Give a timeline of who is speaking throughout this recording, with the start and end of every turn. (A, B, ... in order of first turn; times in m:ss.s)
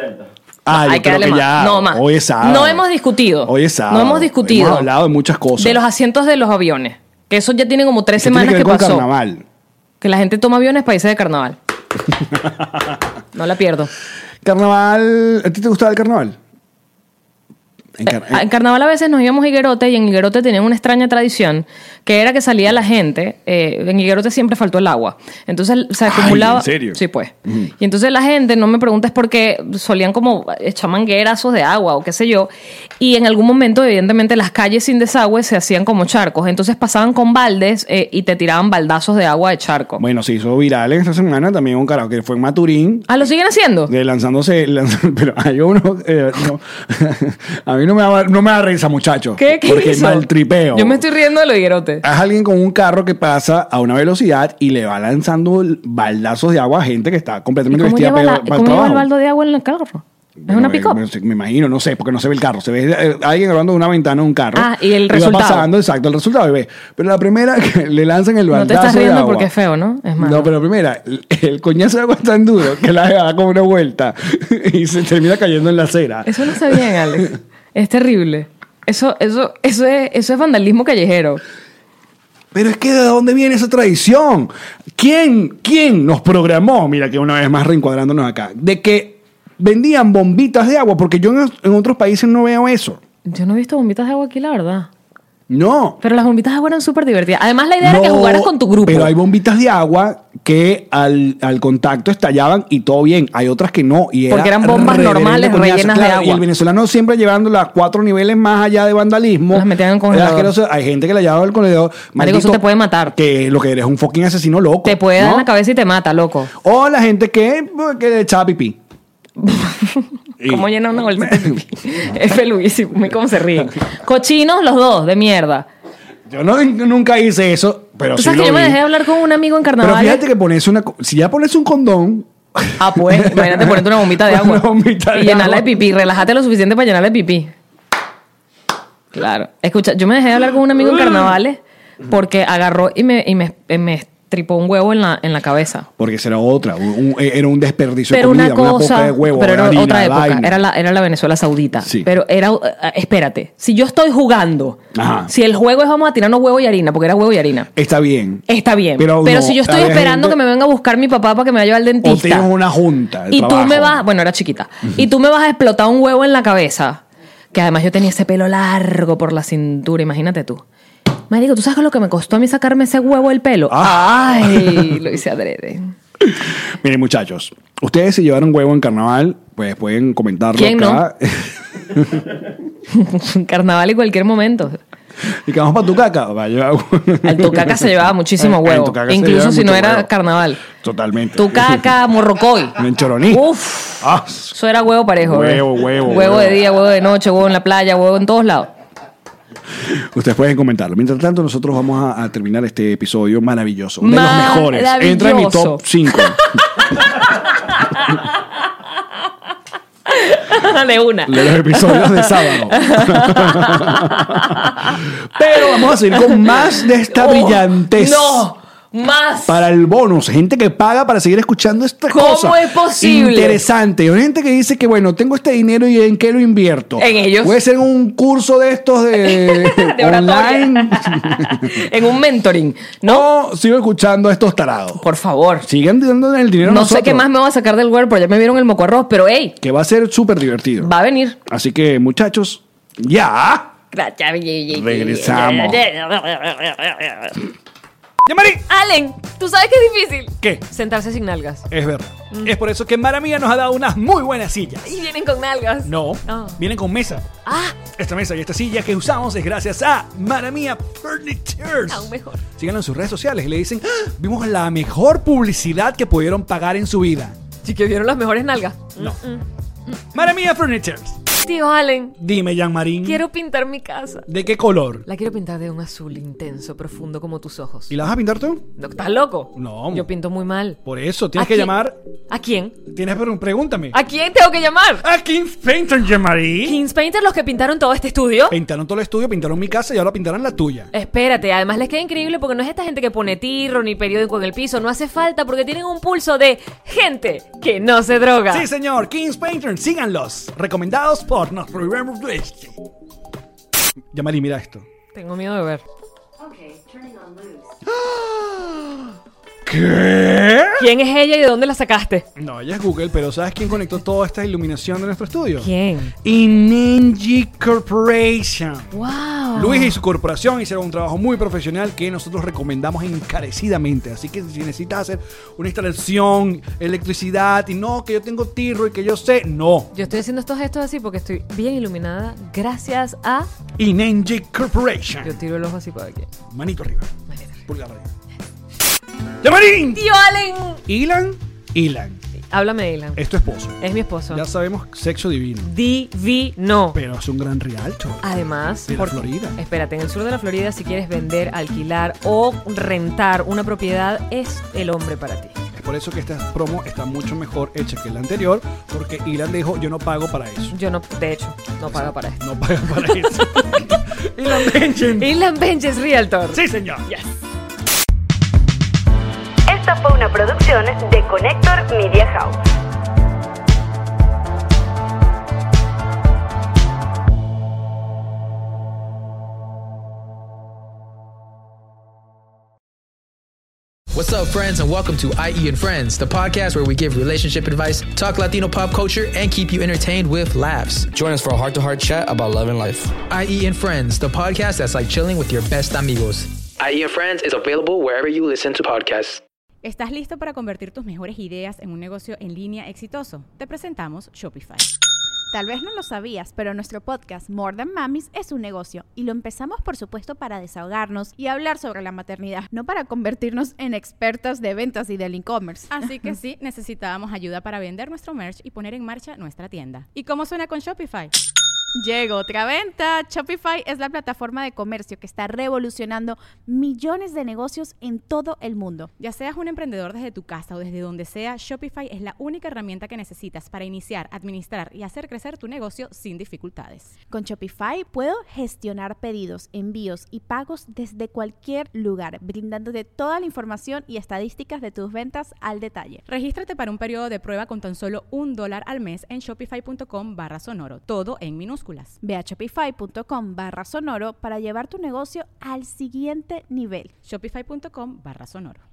0:00.6-0:02.9 A
0:00.7-0:04.9 B
0:03.4-0:05.8 A
0:05.6-0:09.0 B
0:08.2-0:09.4 A
0:10.0-0:11.6 B
0:12.4-0:12.8 A
0:13.3-0:13.9 B
0:14.4-0:16.4 A
0:18.0-0:18.4 A
0:18.0-0:40.0 B
0:26.0-0:27.7 A
0:40.0-0:43.3 A
0:43.1-0:43.9 B
0:43.9-0:51.0 A
0:49.4-0:52.0 B
0:52.0-0:59.1 A
0:57.7-1:01.0 B
1:00.4-1:09.5 A
1:04.5-1:05.7 B
1:08.5-1:10.5 B
1:10.2-1:17.3 A
1:16.2-1:21.4 B
1:22.5-1:33.0 A
1:33.2-1:34.9 B
1:35.5-1:36.0 A
1:36.0-1:39.1 B
1:37.8-1:55.5 A
1:44.3-1:46.4 B
1:49.5-1:50.6 B
1:52.2-1:53.1 B
1:54.8-1:56.5 B
1:56.6-1:58.8 A
1:59.4-2:05.7 B
2:00.4-2:01.6 A
2:06.3-2:08.9 A
2:08.1-2:10.2 B
2:09.8-2:15.8 A
2:12.8-2:17.5 B
2:19.1-2:25.9 B
2:20.8-2:21.4 A
2:26.0-2:30.6 A
2:28.1-2:37.7 B
2:31.8-2:32.1 A
2:34.9-2:35.3 A
2:37.7-2:38.4 A
2:38.5-2:42.5 B
2:39.0-2:40.4 A
2:42.0-2:44.0 A
2:43.3-2:47.0 B
2:47.5-2:50.6 B
2:51.3-2:55.9 B
2:53.7-2:55.1 A
2:56.2-3:02.4 A
3:00.5-3:01.0 B
3:02.9-3:04.8 B
3:05.2-3:10.1 A
3:07.2-3:10.6 B
3:10.6-3:11.9 A
3:11.4-3:12.8 B
3:12.8-3:13.5 A
3:13.3-3:18.7 B
3:14.0-3:14.5 A
3:15.2-3:16.6 A
3:19.8-3:26.5 A
3:24.0-3:28.4 B
3:30.1-3:35.0 B
3:31.2-3:38.5 A
3:35.5-3:39.6 B
3:39.4-3:51.9 A
3:42.1-3:43.6 B
3:47.0-3:47.6 B
3:49.2-3:53.2 B
3:53.0-3:55.0 A
3:55.0-3:55.7 B
3:55.6-3:57.2 A
3:56.6-3:59.6 B
3:59.6-4:00.9 A
4:00.8-4:01.4 B
4:01.4-4:03.7 A
4:03.9-4:07.4 B
4:04.7-4:05.9 A
4:08.2-4:08.6 A
4:08.7-4:11.6 B
4:10.4-4:10.7 A
4:11.7-4:14.9 A
4:14.8-4:16.6 B
4:15.8-4:17.3 A
4:17.4-4:17.8 B
4:17.9-4:27.4 A
4:21.9-4:22.4 B
4:27.6-4:29.4 B
4:30.1-4:31.2 A
4:31.3-4:32.2 B
4:32.2-4:33.3 A
4:33.0-4:34.3 B
4:34.3-4:35.1 A
4:35.0-4:37.9 B
4:37.9-4:38.7 A
4:38.8-4:40.8 B
4:39.5-4:40.1 A
4:40.8-4:42.0 A
4:41.3-4:41.7 B
4:42.3-4:42.8 B
4:42.8-4:44.0 A
4:43.9-4:45.0 B
4:45.0-4:46.8 A
4:46.6-4:48.6 B
4:48.5-4:50.9 A
4:50.9-4:58.7 B
4:58.5-5:02.8 A
5:04.1-5:04.9 A
5:05.1-5:05.8 B
5:07.0-5:07.6 B
5:07.8-5:09.1 A
5:09.6-5:10.9 A
5:10.8-5:12.2 B
5:12.4-5:19.0 A
5:15.6-5:16.1 B
5:18.9-5:20.0 B
5:19.5-5:29.9 A
5:29.9-5:33.5 B
5:33.8-5:35.4 A
5:35.2-5:36.3 B
5:36.5-5:37.1 A
5:37.3-5:37.5 B
5:37.6-5:38.1 A
5:39.4-5:40.1 A
5:39.9-5:40.8 B
5:40.8-5:42.2 A
5:42.5-5:43.2 B
5:43.1-5:45.7 A
5:43.8-5:44.4 B
5:45.6-5:47.0 B
5:46.9-5:48.3 A
5:48.2-5:55.5 B
5:48.8-5:49.6 A
5:55.7-6:00.8 A
6:00.7-6:02.4 B
6:01.8-6:05.4 A
6:03.0-6:03.8 B
6:05.2-6:07.2 B
6:06.5-6:07.1 A
6:09.7-6:12.6 C
6:24.1-6:31.2 D
6:31.7-6:32.3 E
6:33.2-6:36.6 D
6:36.8-6:39.4 E
6:39.8-6:44.9 F
6:45.5-6:56.3 G
6:55.9-7:01.3 F
7:02.0-7:09.1 G
7:09.2-7:17.1 F
7:17.3-7:26.2 G
7:26.3-7:32.2 F
7:32.2-7:37.1 G
7:37.2-7:38.8 F